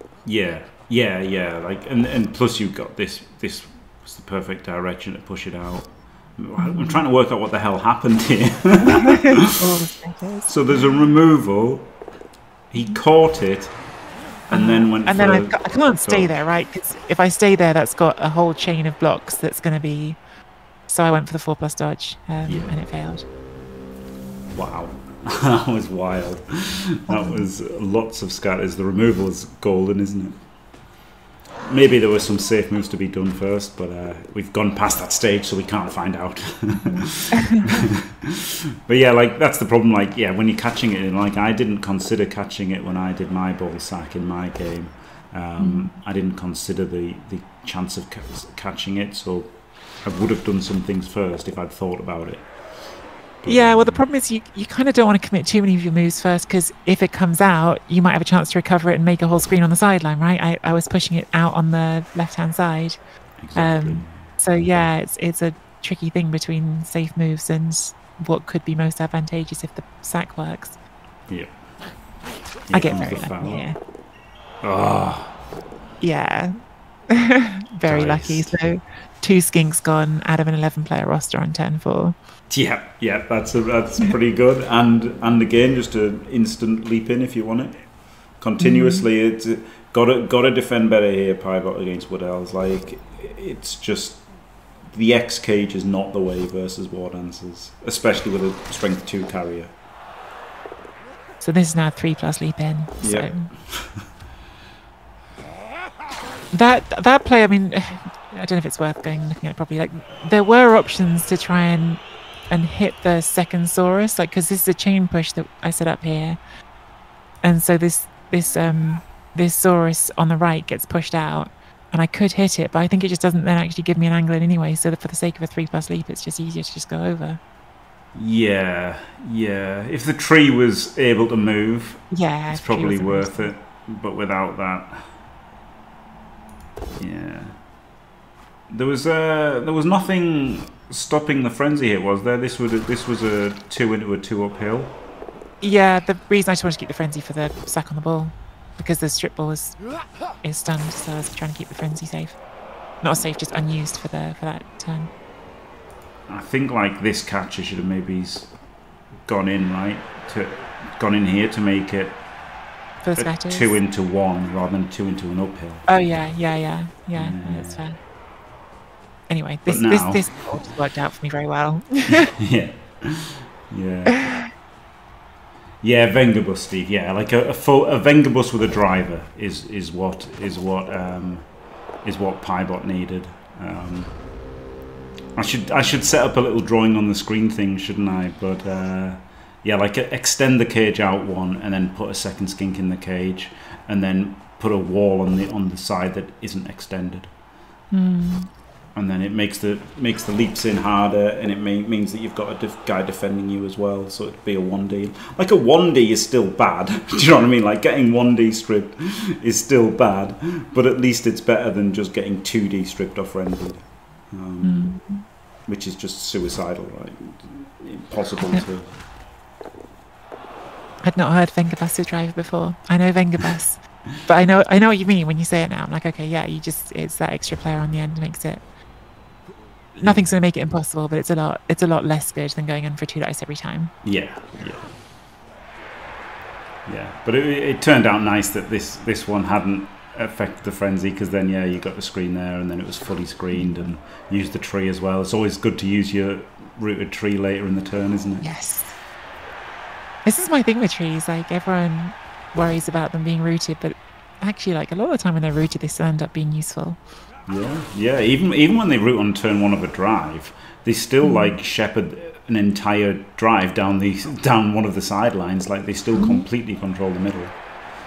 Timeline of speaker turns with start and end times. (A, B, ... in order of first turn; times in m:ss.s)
0:00.2-0:09.5 A
0:06.6-0:07.0 B
0:08.8-0:10.9 B
0:10.5-0:12.0 A
0:12.7-0:13.9 A
0:14.5-0:16.4 A
0:14.5-0:20.2 B
0:20.9-0:23.2 B
0:22.4-0:22.7 A
0:24.5-0:30.4 A
0:27.1-0:27.5 B
0:31.7-0:52.9 A
0:36.8-0:37.8 B
0:45.6-0:45.9 B
0:53.4-0:54.0 A
0:53.4-1:03.0 B
1:03.4-1:04.4 A
1:03.6-1:10.8 B
1:11.3-1:11.8 A
1:12.7-1:13.6 A
1:12.7-1:13.8 B
1:14.6-1:15.4 A
1:16.0-1:16.5 B
1:17.1-1:22.2 B
1:17.9-1:18.5 A
1:22.5-1:39.7 A
1:28.6-1:29.1 B
1:41.4-1:43.5 B
1:43.0-1:44.0 A
1:46.5-1:56.4 B
1:57.4-2:07.4 B
2:08.2-2:15.1 A
2:12.1-2:13.5 B
2:17.0-2:17.7 A
2:18.7-2:25.0 A
2:25.6-2:29.8 B
2:30.4-2:32.4 B
2:33.0-2:35.1 B
2:36.3-2:38.5 A
2:39.2-2:42.4 A
2:43.0-2:43.8 B
2:43.2-2:45.9 A
2:45.9-2:48.0 B
2:47.1-2:47.8 A
2:49.3-2:52.3 B
2:49.7-2:50.2 A
2:52.2-2:54.3 A
2:55.8-3:04.2 A
3:05.4-3:17.3 A
3:17.9-3:18.5 B
3:19.0-3:34.9 A
3:34.6-3:35.2 B
3:35.7-3:39.0 A
3:41.0-3:48.6 B
3:50.0-3:53.9 B
3:50.0-3:50.3 A
3:54.0-3:55.0 A
3:56.9-4:08.5 A
4:03.6-4:03.8 B
4:08.4-4:08.9 B
4:10.2-4:17.0 B
4:17.5-4:27.7 A
4:21.2-4:21.6 B
4:26.1-4:26.5 B